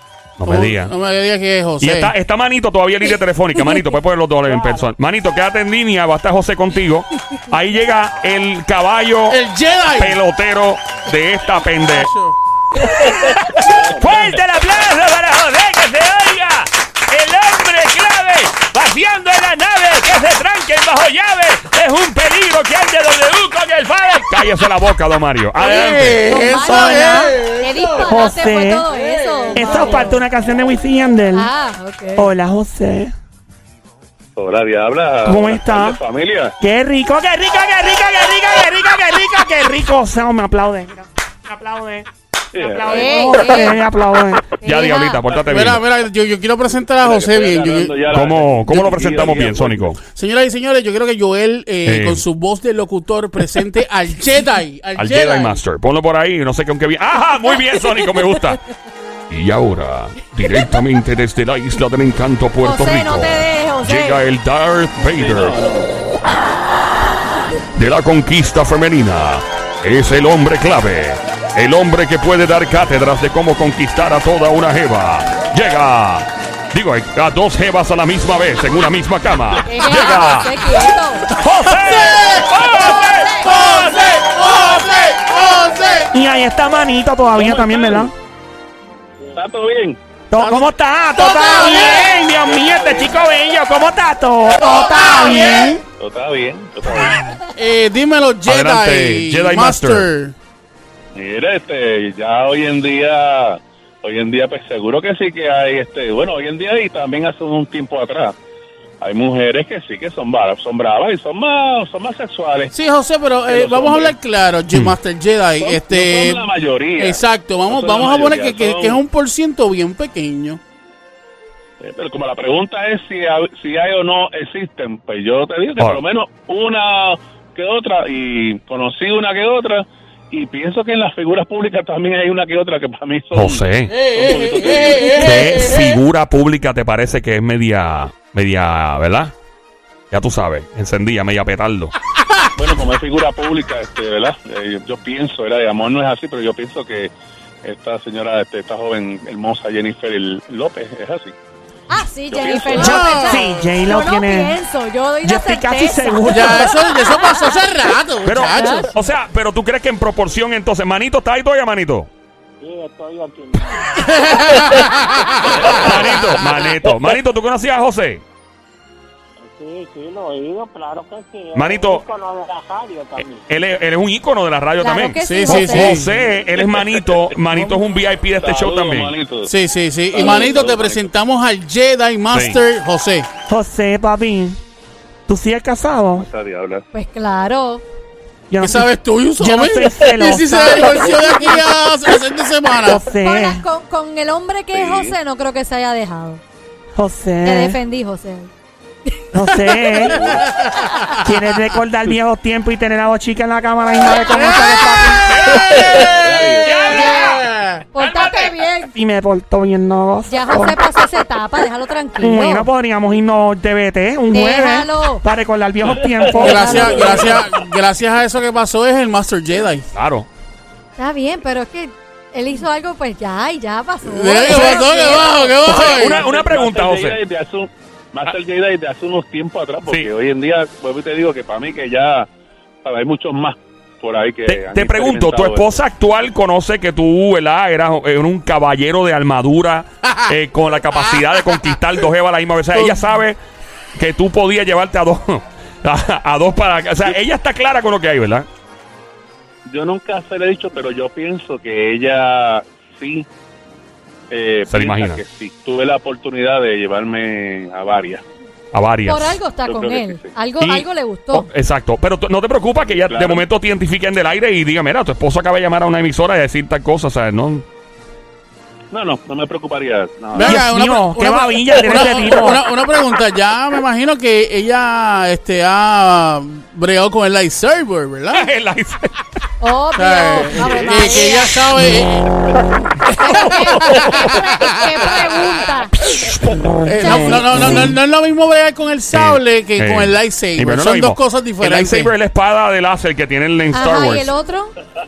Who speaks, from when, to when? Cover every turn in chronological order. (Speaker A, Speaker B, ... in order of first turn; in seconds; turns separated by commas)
Speaker A: 0.4-0.9, Speaker B: 0.4-2.1, Speaker A: 1.8-9.4, Speaker C: 3.5-3.9, Speaker B: 9.3-10.2, Speaker A: 10.0-12.1, Speaker B: 11.8-12.4, Speaker A: 12.8-26.5, Speaker B: 13.7-14.0, Speaker B: 25.6-28.2, Speaker C: 26.2-30.2, Speaker D: 28.1-28.9, Speaker B: 28.9-30.1, Speaker D: 29.5-31.5, Speaker C: 31.3-32.3, Speaker D: 32.2-33.1, Speaker E: 34.4-36.5, Speaker D: 35.2-36.0, Speaker D: 36.6-44.4, Speaker E: 42.5-43.4, Speaker C: 42.9-43.8, Speaker C: 44.6-45.2, Speaker A: 44.6-45.8, Speaker B: 45.4-48.1, Speaker E: 47.0-50.0, Speaker A: 48.1-50.0, Speaker B: 50.0-55.6, Speaker A: 51.9-52.2, Speaker A: 55.0-58.6, Speaker C: 57.8-58.1, Speaker A: 59.3-65.6, Speaker C: 62.6-64.2, Speaker E: 65.1-65.9, Speaker A: 67.8-80.6, Speaker C: 79.7-81.4, Speaker A: 81.3-83.7, Speaker B: 81.7-86.1, Speaker C: 82.8-83.5, Speaker D: 86.1-88.1, Speaker E: 87.3-88.1, Speaker E: 89.3-90.0, Speaker D: 90.3-95.8, Speaker B: 90.4-90.7, Speaker B: 91.2-92.1, Speaker E: 92.3-93.1, Speaker B: 94.6-95.8, Speaker E: 96.0-97.2, Speaker B: 97.5-100.3, Speaker A: 98.5-100.1, Speaker E: 101.2-108.3, Speaker E: 109.0-112.7, Speaker B: 112.7-120.6, Speaker E: 113.5-114.2, Speaker E: 115.6-119.0, Speaker E: 121.8-135.2, Speaker A: 133.3-134.0, Speaker B: 133.9-136.0, Speaker A: 135.1-139.3, Speaker A: 140.1-141.9, Speaker E: 142.6-147.1, Speaker E: 147.6-151.4, Speaker C: 151.9-157.6, Speaker E: 152.3-153.0, Speaker D: 152.8-154.6, Speaker B: 152.8-153.5, Speaker D: 155.2-156.8, Speaker B: 156.3-158.9, Speaker A: 158.2-162.1, Speaker C: 158.5-158.9, Speaker F: 162.6-164.4, Speaker B: 164.0-166.5, Speaker A: 165.6-168.2, Speaker F: 169.4-173.4, Speaker A: 171.6-172.0, Speaker A: 173.5-179.1, Speaker C: 174.8-176.0, Speaker B: 175.2-176.2, Speaker E: 176.6-176.9, Speaker E: 178.4-179.5, Speaker B: 179.4-183.3, Speaker E: 180.1-181.1, Speaker C: 180.2-180.6, Speaker A: 182.3-182.6, Speaker D: 183.5-184.6, Speaker D: 185.3-186.3, Speaker E: 186.2-186.8, Speaker C: 186.9-187.8, Speaker D: 188.5-191.2, Speaker B: 188.6-193.0, Speaker D: 192.8-193.6, Speaker C: 193.1-196.4, Speaker E: 194.7-195.2, Speaker D: 197.0-197.8, Speaker C: 197.4-198.5, Speaker D: 199.3-200.2, Speaker E: 200.0-200.5, Speaker C: 200.8-201.2, Speaker B: 200.8-201.3, Speaker D: 201.2-205.4, Speaker B: 204.3-208.5, Speaker A: 205.3-206.1, Speaker E: 205.8-206.9, Speaker A: 206.7-207.4, Speaker C: 206.8-207.4, Speaker C: 207.9-208.9, Speaker D: 208.9-210.8, Speaker C: 210.3-212.7, Speaker D: 212.2-217.3, Speaker C: 214.3-215.2, Speaker E: 215.8-217.7, Speaker B: 216.4-219.9, Speaker C: 216.4-217.0, Speaker A: 219.9-220.3, Speaker C: 221.0-225.6, Speaker B: 224.0-226.2, Speaker A: 224.5-224.8, Speaker A: 225.7-227.2, Speaker E: 225.7-232.3, Speaker E: 232.8-235.8, Speaker A: 234.5-243.4, Speaker B: 242.7-243.0, Speaker A: 244.0-248.5, Speaker E: 249.7-253.3, Speaker E: 254.3-258.2, Speaker A: 254.7-255.2, Speaker A: 258.7-259.4, Speaker C: 259.1-261.5, Speaker E: 259.6-260.3, Speaker A: 260.6-267.6, Speaker E: 263.1-263.4, Speaker E: 268.9-270.6, Speaker B: 270.3-278.5, Speaker D: 270.4-272.6, Speaker A: 271.3-272.3, Speaker A: 278.3-279.2, Speaker C: 279.6-281.6, Speaker B: 280.0-282.6, Speaker A: 280.6-281.3, Speaker C: 283.2-285.9, Speaker B: 283.2-285.6, Speaker D: 286.4-287.8, Speaker B: 286.9-292.1, Speaker C: 287.0-287.9, Speaker A: 289.1-294.3, Speaker C: 293.7-294.7